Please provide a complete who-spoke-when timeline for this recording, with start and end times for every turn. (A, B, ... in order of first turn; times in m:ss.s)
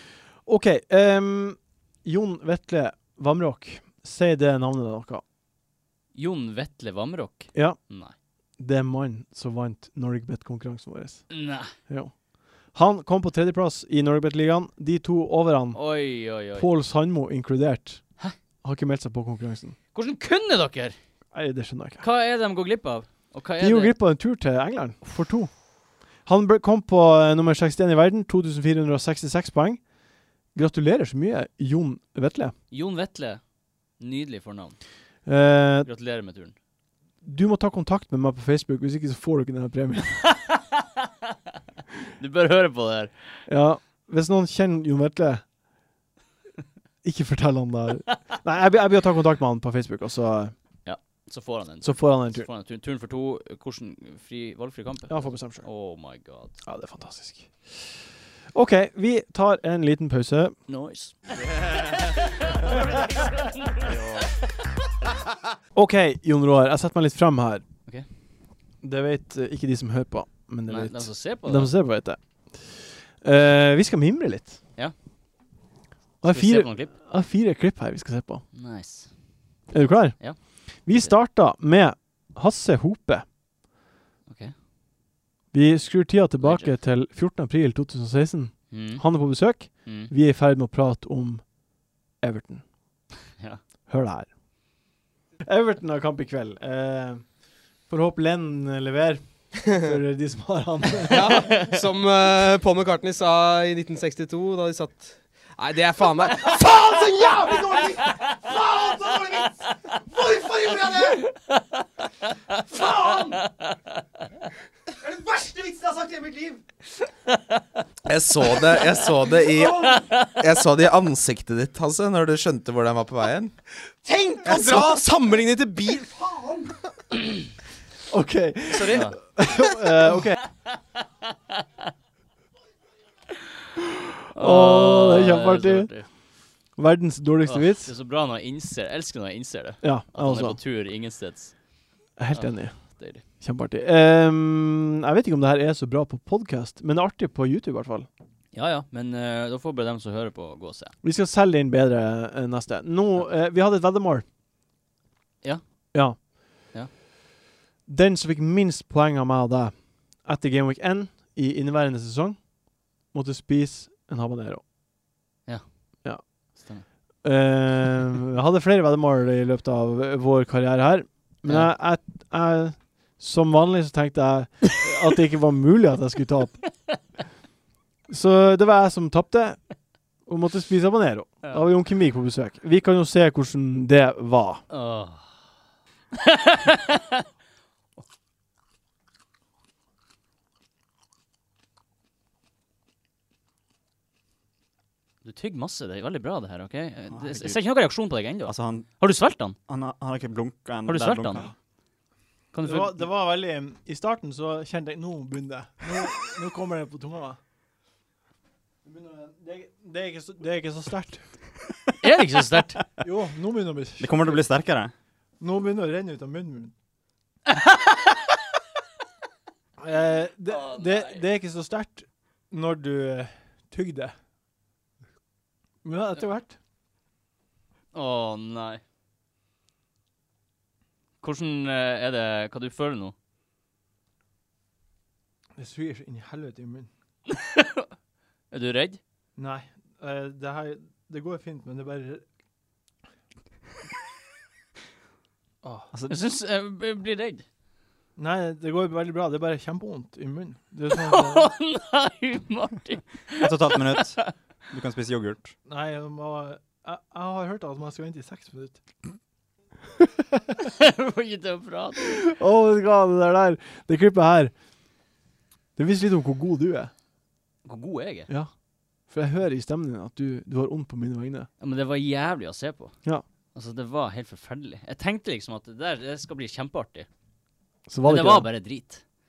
0:00.4-0:05.2 A
0:06.1-0:08.1 B
0:07.5-0:07.8 A
0:08.6-0:12.1 A
0:11.3-0:11.7 B
0:12.7-0:15.8 A
0:15.7-0:16.7 B
0:16.6-0:18.0 A
0:18.6-0:19.8 A
0:19.9-0:21.0 B
0:21.3-0:22.0 A
0:22.0-0:23.9 B
0:23.6-0:25.6 A
0:26.2-0:29.8 A
0:30.5-0:32.5 A
0:32.7-0:33.4 B
0:34.0-0:34.8 B
0:35.3-0:35.9 A
0:35.8-0:36.6 B
0:37.2-0:40.2 A
0:40.2-0:41.1 B
0:42.2-0:43.2 B
0:43.5-0:45.4 A
0:47.0-0:50.6 A
0:50.8-0:56.6 B
0:51.8-0:52.5 A
0:55.1-0:55.7 A
0:56.6-0:57.9 A
0:58.5-1:00.6 A
1:00.7-1:04.3 B
1:05.7-1:07.6 A
1:08.8-1:14.6 A
1:10.7-1:11.7 B
1:16.2-1:18.4 A
1:16.3-1:16.9 B
1:18.5-1:19.1 B
1:19.7-1:23.3 A
1:24.3-1:24.5 B
1:25.5-1:31.4 A
1:26.4-1:26.7 B
1:28.7-1:29.0 B
1:29.8-1:30.1 B
1:32.2-1:32.6 A
1:33.9-1:34.3 A
1:35.4-1:41.5 A
1:41.1-1:49.5 C
1:41.3-1:41.8 D
1:47.4-1:47.8 A
1:50.1-1:51.2 C
1:51.1-1:51.6 B
1:52.8-1:53.2 C
1:53.4-1:53.7 B
1:55.1-1:56.6 C
1:58.0-2:03.5 D
1:59.5-1:59.9 C
2:04.0-2:06.8 C
2:04.4-2:06.0 D
2:08.1-2:10.4 A
2:08.7-2:09.2 B
2:14.3-2:16.1 B
2:14.4-2:16.0 A
2:16.8-2:17.9 A
2:17.4-2:21.7 B
2:19.8-2:20.6 A
2:22.2-2:28.1 A
2:22.3-2:23.2 B
2:28.5-2:30.9 B
2:31.0-2:34.2 A
2:35.9-2:36.2 A
2:37.9-2:44.6 A
2:46.2-2:46.9 B
2:47.2-2:56.6 A
2:51.4-2:51.7 B
2:58.1-2:59.6 A
3:00.3-3:04.6 A
3:04.7-3:05.4 B
3:06.1-3:07.0 B
3:15.2-3:19.6 B
3:17.1-3:17.8 E
3:18.4-3:21.5 E
3:20.9-3:21.5 B
3:22.5-3:23.1 B
3:22.6-3:27.4 A
3:28.8-3:31.4 A
3:32.0-3:32.8 B
3:33.0-3:34.4 A
3:34.0-3:34.9 E
3:35.4-3:36.7 A
3:37.5-3:38.2 B
3:39.8-3:44.1 A
3:40.5-3:41.2 B
3:45.8-3:46.6 A
3:47.9-3:48.8 B
3:51.2-3:53.1 B
3:55.6-3:56.9 A
3:57.3-3:57.9 B
3:58.5-3:59.0 B
3:59.4-4:02.2 A
4:05.6-4:05.9 A
4:06.0-4:07.4 B
4:08.2-4:11.5 A
4:10.9-4:14.3 B
4:13.4-4:15.5 E
4:15.7-4:18.8 A
4:20.6-4:22.2 B
4:22.2-4:24.5 A
4:25.8-4:26.9 A
4:27.6-4:28.3 B
4:29.1-4:31.5 A
4:31.6-4:32.9 B
4:33.5-4:37.1 B
4:37.9-4:38.5 A
4:38.0-4:39.0 B